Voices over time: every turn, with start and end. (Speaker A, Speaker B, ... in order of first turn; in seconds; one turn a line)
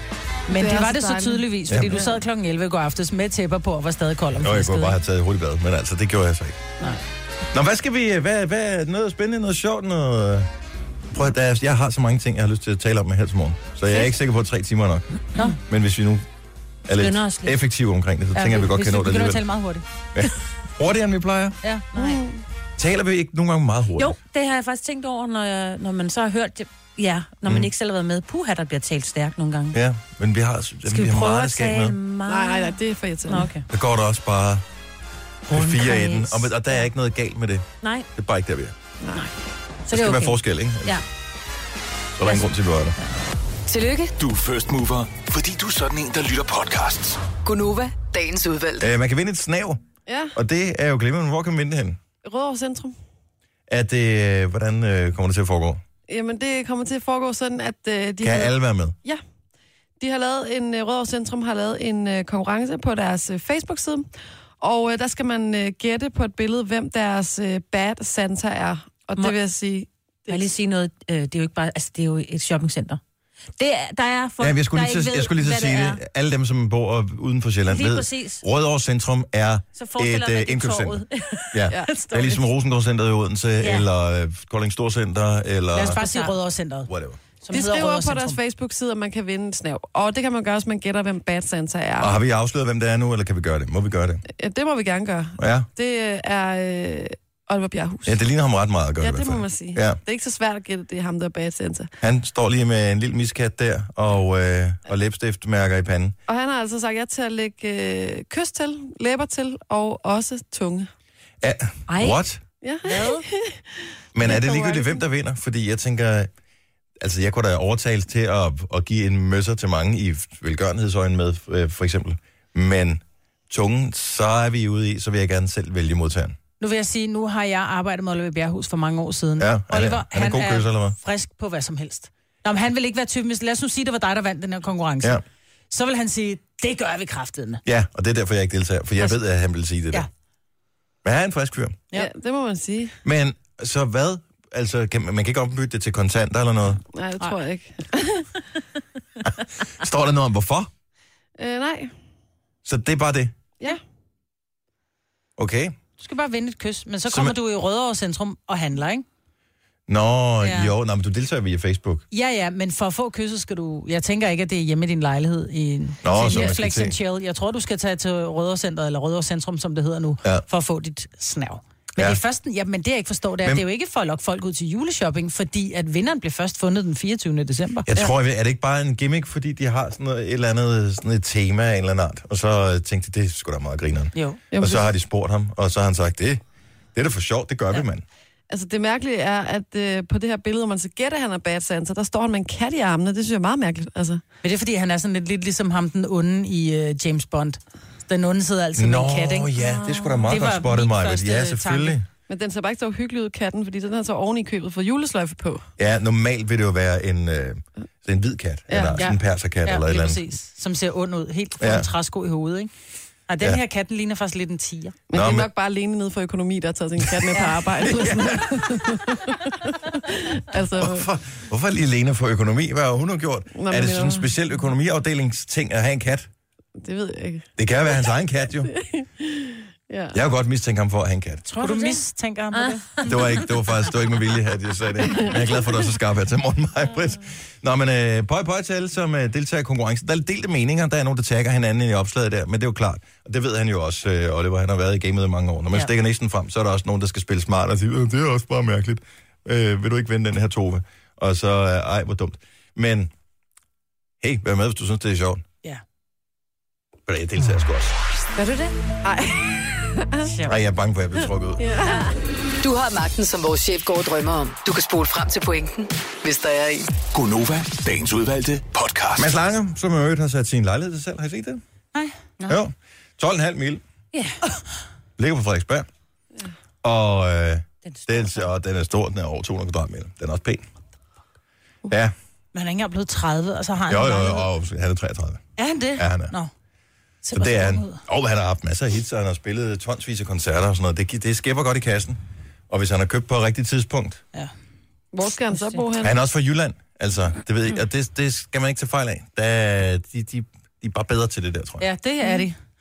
Speaker A: 0.5-2.1
Speaker B: 0.5-5.0
Speaker C: 1.7-2.1
Speaker C: 4.4-6.7
Speaker C: 7.5-10.5
Speaker C: 11.1-16.2
Speaker C: 16.9-19.4
Speaker D: 16.9-17.6
Speaker B: 18.4-19.8
Speaker C: 20.1-21.6
Speaker D: 21.9-22.2
Speaker A: 21.9-22.4
Speaker C: 22.8-24.1
Speaker D: 24.0-29.8
Speaker C: 27.4-27.7
Speaker C: 29.7-31.9
Speaker D: 30.9-33.6
Speaker A: 32.3-33.5
Speaker C: 33.7-34.6
Speaker C: 35.5-38.7
Speaker D: 35.5-36.5
Speaker D: 37.8-38.1
Speaker D: 39.9-41.0
Speaker C: 39.9-41.0
Speaker C: 42.2-43.0
Speaker D: 42.2-42.5
Speaker E: 43.7-44.1
Speaker F: 44.2-47.2
Speaker E: 47.4-48.9
Speaker C: 48.8-49.8
Speaker A: 50.0-50.4
Speaker C: 50.3-52.0
Speaker A: 52.2-52.9
Speaker C: 53.7-55.8
Speaker A: 56.1-58.5
Speaker C: 58.2-59.0
Speaker A: 60.0-64.0
Speaker A: 64.6-70.4
Speaker D: 70.3-73.0
Speaker D: 73.6-76.0
Speaker C: 74.4-86.0
Speaker D: 77.7-78.4
Speaker D: 79.8-82.0
Speaker A: 81.7-82.4
Speaker D: 83.6-83.9
Speaker B: 85.7-86.9
Speaker D: 85.9-86.3
Speaker C: 86.9-87.2
Speaker B: 87.4-88.4
Speaker A: 87.5-92.1
Speaker C: 92.0-94.2
Speaker A: 94.3-98.2
Speaker C: 95.4-95.7
Speaker C: 98.0-100.0
Speaker A: 99.0-101.9
Speaker C: 102.0-106.2
Speaker A: 106.3-110.9
Speaker C: 111.4-112.4
Speaker D: 111.9-112.2
Speaker A: 112.6-115.0
Speaker D: 112.8-113.2
Speaker C: 114.1-116.3
Speaker C: 117.0-126.4
Speaker B: 126.6-135.2
Speaker C: 129.4-130.9
Speaker B: 135.7-137.6
Speaker C: 137.6-140.1
Speaker C: 141.0-141.8
Speaker A: 141.9-142.9
Speaker C: 143.0-146.8
Speaker A: 146.9-148.4
Speaker C: 149.6-150.7
Speaker A: 151.4-151.9
Speaker C: 152.6-153.3
Speaker C: 155.4-155.8
Speaker B: 156.0-159.0
Speaker C: 157.1-157.3
Speaker C: 159.9-162.0
Speaker B: 160.4-160.7
Speaker B: 162.1-177.9
Speaker C: 166.0-166.9
Speaker C: 177.8-186.4
Speaker B: 184.1-184.4
Speaker A: 184.5-184.9
Speaker C: 186.9-188.0
Speaker A: 188.5-194.2
Speaker B: 194.4-199.5
Speaker C: 198.8-202.1
Speaker B: 200.3-202.0
Speaker A: 202.3-205.7
Speaker C: 205.8-210.2
Speaker A: 208.7-209.1
Speaker B: 209.0-212.7
Speaker C: 211.6-211.9
Speaker B: 213.3-214.9
Speaker A: 215.1-221.1
Speaker C: 215.1-215.5
Speaker C: 217.8-219.1
Speaker C: 220.8-226.3
Speaker A: 223.6-224.3
Speaker A: 226.8-227.5
Speaker C: 227.6-228.7
Speaker A: 228.6-230.2
Speaker C: 230.1-231.4
Speaker B: 231.5-233.0
Speaker D: 231.5-232.0
Speaker D: 232.5-233.5
Speaker C: 233.0-253.1
Speaker C: 254.2-255.4
Speaker C: 257.1-258.0
Speaker A: 258.4-260.3
Speaker C: 260.4-261.7
Speaker A: 261.6-262.1
Speaker E: 262.6-266.9
Speaker F: 267.1-269.3
Speaker C: 269.2-271.6
Speaker C: 272.5-273.8
Speaker C: 275.2-275.9
Speaker C: 276.8-280.6
Speaker D: 277.8-278.5
Speaker C: 281.9-282.1
Speaker B: 282.5-284.5
Speaker C: 283.9-285.4
Speaker B: 285.6-286.5
Speaker C: 285.9-286.3
Speaker B: 287.2-288.0
Speaker C: 287.3-294.2
Speaker A: 295.1-296.1
Speaker C: 296.0-301.9
Speaker B: 301.8-302.6